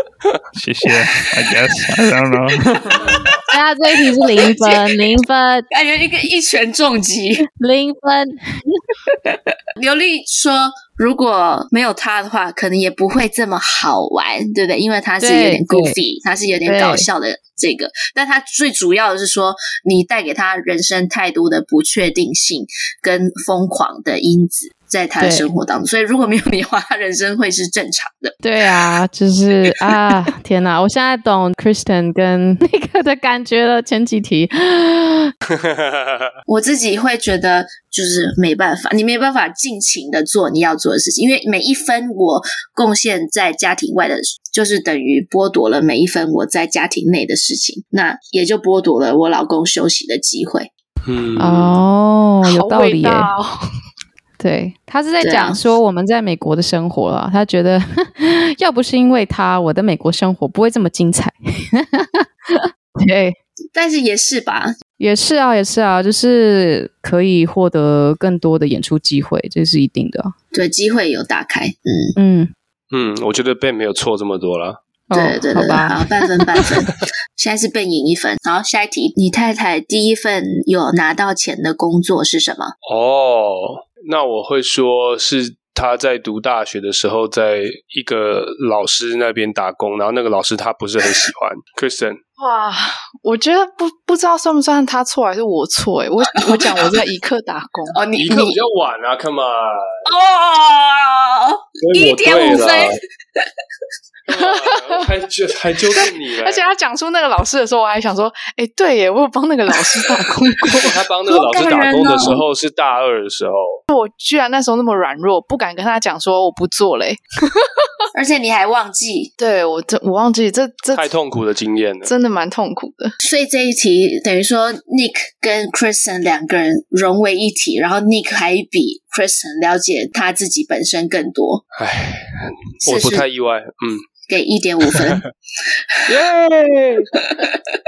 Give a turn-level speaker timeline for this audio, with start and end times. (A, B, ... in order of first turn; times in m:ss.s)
0:00.5-0:03.2 A
0:03.5-0:05.7 B
0:04.4-0:04.9 C
0:05.7-0:07.4 C
0:07.6-0:08.8 B
0:09.8-0:28.4 C
0:15.2-0:16.0 B
0:16.7-0:17.1 B
0:25.2-0:25.5 B
0:28.4-0:35.3 B
0:35.5-0:36.3 D
0:36.5-0:50.7 C
0:51.0-0:51.8 D
0:51.4-0:53.3 B
0:52.4-0:53.6 E
0:54.4-1:03.4 B
0:55.2-0:55.7 C
1:03.7-1:04.8 C
1:05.0-1:10.3 B
1:10.5-1:12.2 C
1:12.2-1:12.5 B
1:12.9-1:14.8 D
1:15.1-1:16.3 B
1:15.1-1:22.7 C
1:22.8-1:32.2 D
1:32.4-1:38.0 E
1:37.9-1:38.6 C
1:38.2-1:39.9 D
1:40.1-1:43.5 C
1:41.8-1:43.0 D
1:44.3-1:46.6 D
1:44.3-1:45.1 E
1:46.4-1:51.0 E
1:50.7-1:53.8 D
1:51.3-1:52.4 C
1:53.9-1:57.9 E
1:58.1-1:59.3 C
1:59.4-2:01.1 E
2:00.9-2:02.1 D
2:02.0-2:03.1 E
2:03.2-2:11.6 C
2:11.8-2:14.0 D
2:12.8-2:13.2 C
2:14.3-2:15.3 C
2:16.1-2:17.1 D
2:17.2-2:17.6 C